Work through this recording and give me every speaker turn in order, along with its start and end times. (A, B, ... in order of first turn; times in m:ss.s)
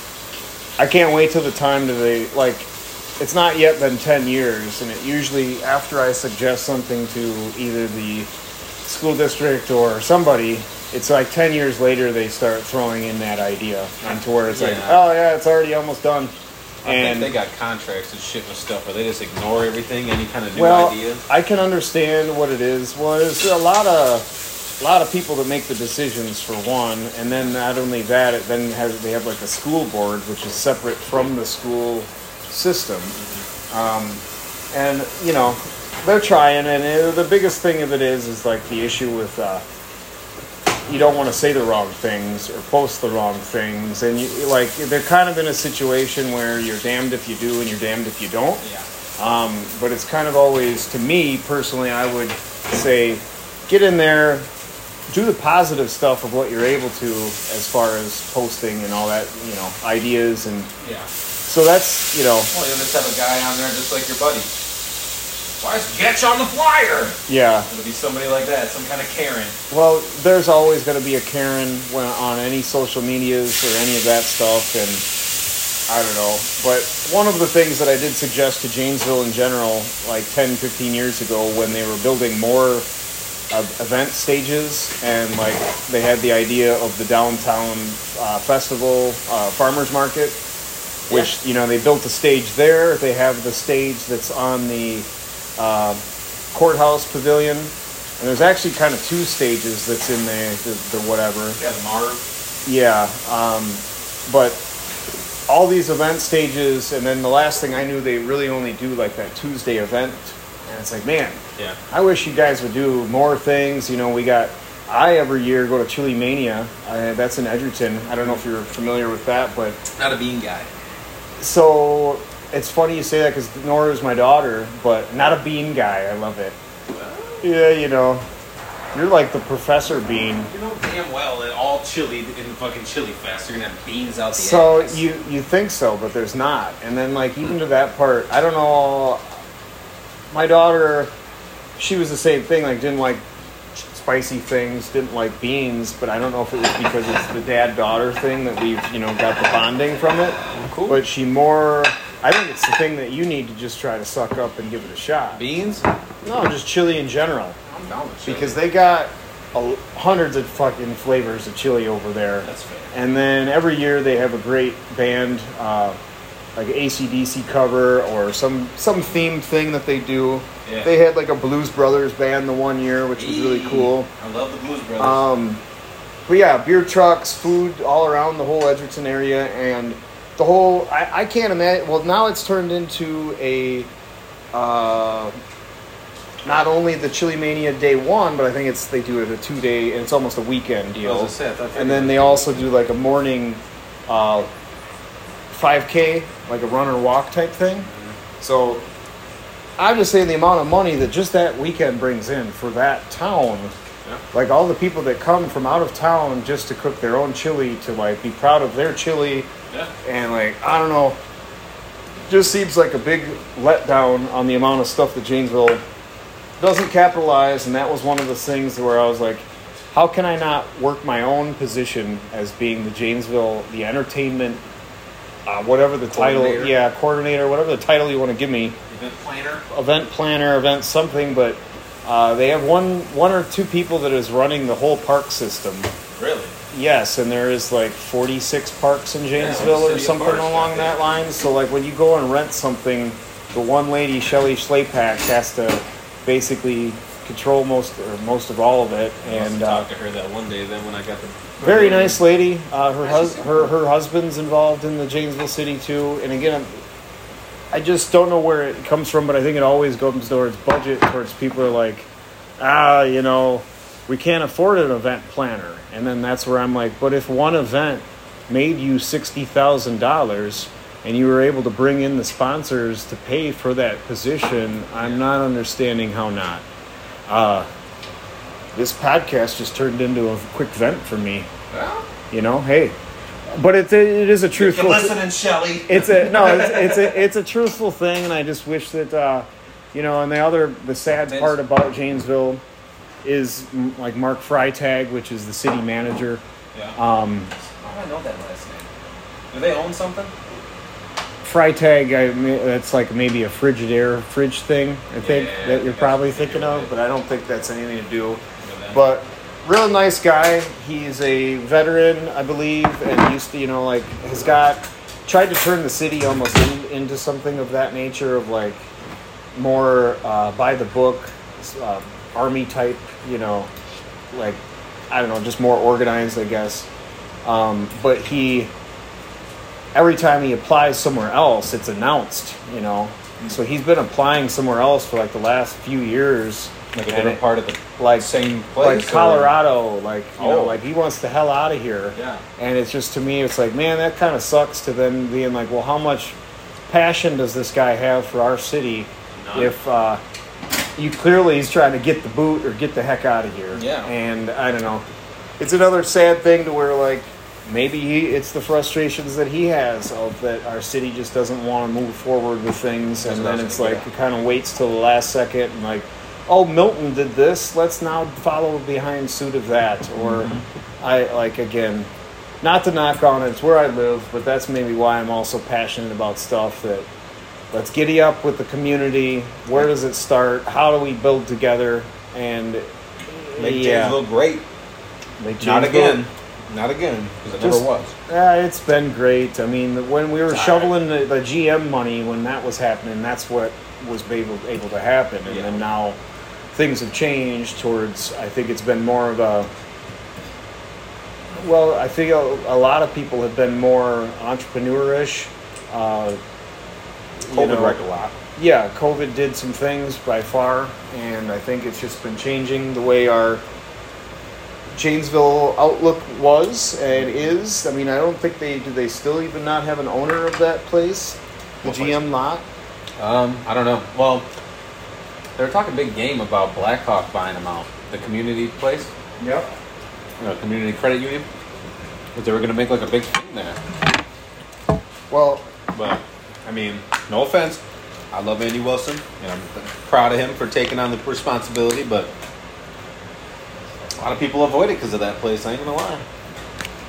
0:00.8-0:08.3 A
0:08.8-0:17.4 A
0:14.0-0:15.0 B
0:16.8-0:21.2 B
0:20.5-0:24.3 A
0:24.8-0:33.2 A
0:33.2-0:33.4 B
0:33.7-0:39.6 A
0:40.8-0:48.6 A
0:48.6-0:48.9 B
0:49.2-0:54.5 A
0:55.1-1:00.7 A
1:00.8-1:01.1 B
1:01.4-1:02.5 A
1:02.5-1:04.5 B
1:05.6-1:07.2 B
1:07.3-1:07.7 A
1:07.7-1:09.5 B
1:09.7-1:15.0 A
1:15.9-1:22.9 A
1:23.5-1:30.4 A
1:31.1-1:36.0 A
1:36.5-1:41.6 A
1:41.6-1:42.2 B
1:42.6-1:44.6 A
1:45.5-1:51.4 A
1:51.9-1:59.8 A
1:59.9-2:00.7 B
2:01.4-2:06.6 A
2:06.9-2:07.4 B
2:07.4-2:08.2 A
2:08.9-2:10.5 A
2:10.5-2:15.0 B
2:14.3-2:19.3 A
2:20.3-2:21.1 A
2:21.8-2:23.2 A
2:23.8-2:35.4 A
2:30.5-2:31.0 B
2:35.3-2:35.8 B
2:36.2-2:37.6 A
2:37.7-2:38.6 B
2:38.2-2:46.0 A
2:42.4-2:42.9 B
2:46.6-2:54.1 A
2:50.6-2:50.9 B
2:53.1-2:55.2 B
2:55.0-2:55.6 A
2:56.3-3:03.9 A
3:04.5-3:05.4 A
3:06.4-3:14.5 A
3:11.0-3:12.7 B
3:15.5-3:17.9 A
3:17.8-3:18.2 B
3:18.4-3:18.8 A
3:19.8-3:23.7 A
3:24.3-3:29.5 A
3:30.0-3:31.2 A
3:32.3-3:35.8 A
3:36.6-3:44.6 A
3:45.4-3:48.8 A
3:46.1-3:46.7 B
3:48.9-3:49.6 B
3:49.7-3:55.9 A
3:56.2-3:56.5 B
3:56.7-4:09.9 A
3:59.3-4:01.0 B
4:09.2-4:12.2 B
4:11.6-4:16.8 A
4:13.0-4:13.7 B
4:17.7-4:36.6 A
4:35.0-4:35.2 B
4:37.3-4:37.7 A
4:38.7-4:41.5 A
4:41.7-4:42.0 B
4:42.3-4:43.0 A
4:43.5-4:45.2 A
4:44.5-4:47.2 B
4:45.9-4:52.6 A
4:51.2-4:51.6 B
4:53.2-4:56.4 A
4:56.9-4:57.5 A
4:57.8-4:58.9 B
4:59.5-5:00.3 B
5:01.4-5:08.4 A
5:05.2-5:06.9 B
5:08.6-5:09.0 B
5:08.9-5:18.9 A
5:19.5-5:23.7 A
5:24.3-5:26.9 A
5:27.4-5:28.7 A
5:29.9-5:37.4 A
5:37.0-5:39.6 B
5:38.0-5:46.4 A
5:40.4-5:40.8 B
5:42.1-5:42.4 B
5:46.9-5:50.2 A
5:49.4-5:49.7 B
5:51.0-5:55.0 A
5:53.7-5:54.1 B
5:55.6-6:12.1 A
6:03.2-6:04.0 B
6:10.2-6:10.6 B
6:12.6-6:17.1 A
6:17.7-6:24.2 A
6:23.6-6:24.6 B
6:25.4-6:26.2 A
6:25.6-6:28.1 B
6:27.6-6:36.2 A
6:30.5-6:30.9 B
6:35.4-6:35.8 B
6:36.7-6:39.7 A
6:41.5-6:46.4 A
6:47.4-6:48.0 A
6:47.5-6:48.3 B
6:48.6-6:53.6 A
6:54.9-7:02.6 A
6:57.1-6:57.5 B
7:01.8-7:02.2 B
7:03.2-7:04.5 B
7:05.6-7:09.1 B
7:09.4-7:09.7 A
7:10.4-7:11.5 B
7:12.3-7:13.8 B
7:15.3-7:15.7 A
7:15.9-7:17.8 B
7:18.3-7:22.3 B
7:24.2-7:26.2 B